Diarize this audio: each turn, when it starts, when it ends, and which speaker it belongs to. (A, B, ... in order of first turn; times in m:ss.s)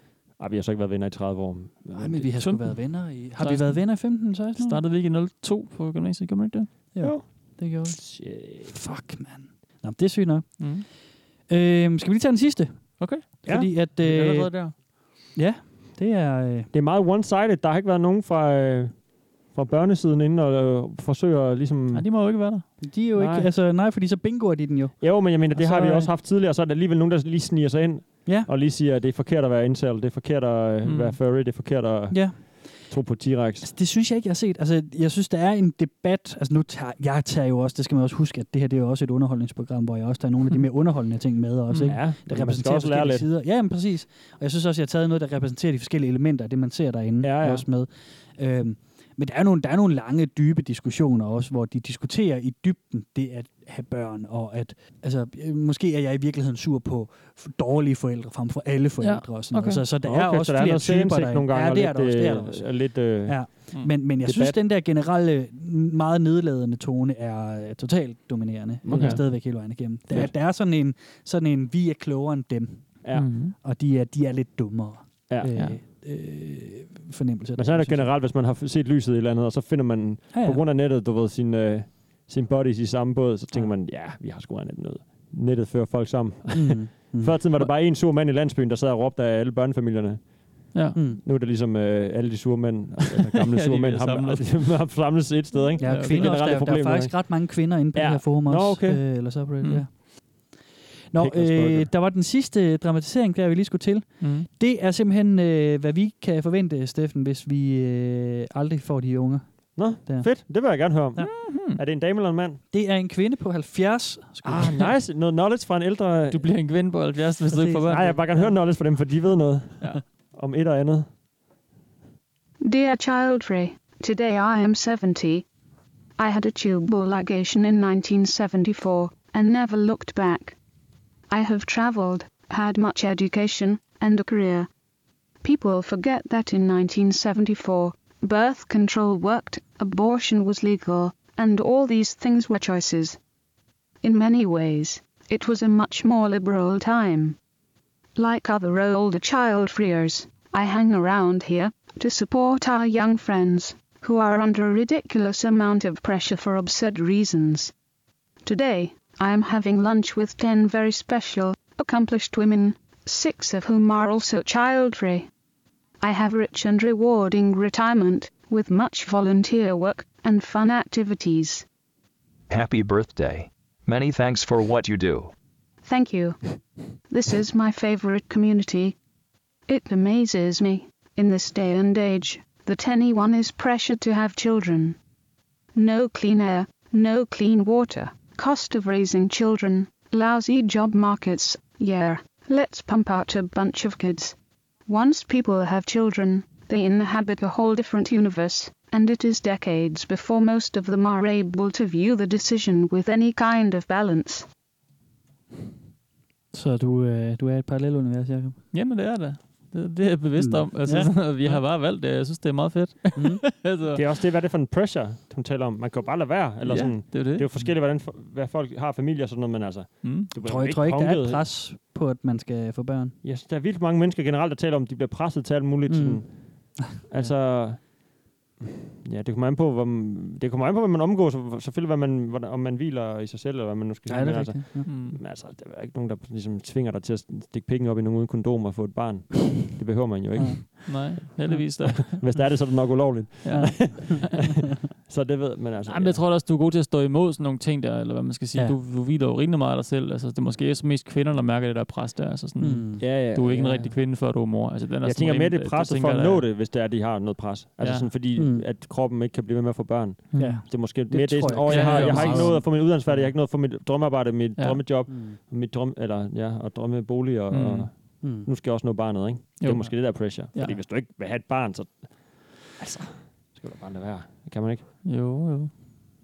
0:00.4-0:02.4 A
0:01.9-0:04.8 B
0:02.4-0:06.7 C
0:06.9-0:16.7 B
0:07.0-0:08.8 A
0:10.6-0:10.8 C
0:13.0-0:14.8 C
0:13.4-0:13.7 A
0:16.7-0:22.1 A
0:21.9-0:22.7 C
0:22.8-0:26.1 B
0:23.2-0:23.5 A
0:25.0-0:33.7 A
0:30.8-0:31.2 C
0:32.1-0:33.0 B
0:33.6-1:18.1 B
0:41.7-0:42.0 C
0:41.9-0:43.3 A
0:47.2-0:47.6 A
0:59.0-0:59.8 C
1:00.0-1:04.6 A
1:08.8-1:09.4 A
1:08.9-1:09.3 C
1:13.0-1:13.3 A
1:13.1-1:13.5 C
1:15.3-1:15.6 A
1:17.6-1:37.4 A
1:20.3-1:20.6 B
1:26.5-1:27.4 B
1:30.9-1:31.2 B
1:33.4-1:35.1 C
1:35.7-1:36.4 C
1:35.8-1:51.3 B
1:37.9-1:39.0 A
1:39.6-1:39.9 C
1:41.2-1:41.9 A
1:44.2-1:44.5 C
1:49.7-1:52.6 A
1:51.2-1:51.8 C
1:52.7-1:54.9 B
1:54.4-1:56.6 A
1:56.3-1:58.5 C
1:57.5-1:58.5 B
1:57.7-2:01.1 A
2:02.6-2:05.4 D
2:06.2-2:10.6 D
2:11.3-2:14.7 D
2:15.4-2:23.2 D
2:24.0-2:27.4 D
2:28.2-2:37.7 D
2:38.4-2:45.3 D
2:46.0-2:51.6 D
2:52.5-2:55.3 E
2:55.8-2:56.4 D
2:57.1-2:58.9 D
2:59.7-3:05.0 D
3:05.7-3:14.4 D
3:14.9-3:24.5 D
3:26.5-3:28.6 B
3:28.7-3:34.0 C
3:30.4-3:31.6 B
3:33.1-3:33.4 B
3:33.9-3:41.5 A
3:36.6-3:37.5 C
3:40.0-3:40.3 C
3:40.4-3:43.2 B
3:43.2-4:06.2 A
3:45.9-3:47.3 B
3:54.1-3:54.9 B
3:54.8-3:55.2 C
4:00.4-4:02.4 B
4:00.8-4:02.5 C
4:03.4-4:04.3 C
4:03.5-4:04.3 B
4:05.9-4:16.5 C
4:12.6-4:13.9 B
4:13.0-4:13.9 A
4:15.0-4:34.9 A
4:17.8-4:18.1 C
4:18.3-4:18.7 B
4:20.3-4:20.6 C
4:20.3-4:23.3 B
4:21.7-4:22.7 C
4:24.6-4:24.8 C
4:25.1-4:25.4 B
4:27.5-4:27.9 C
4:28.2-4:28.5 B
4:29.6-4:30.8 C
4:35.0-4:35.7 C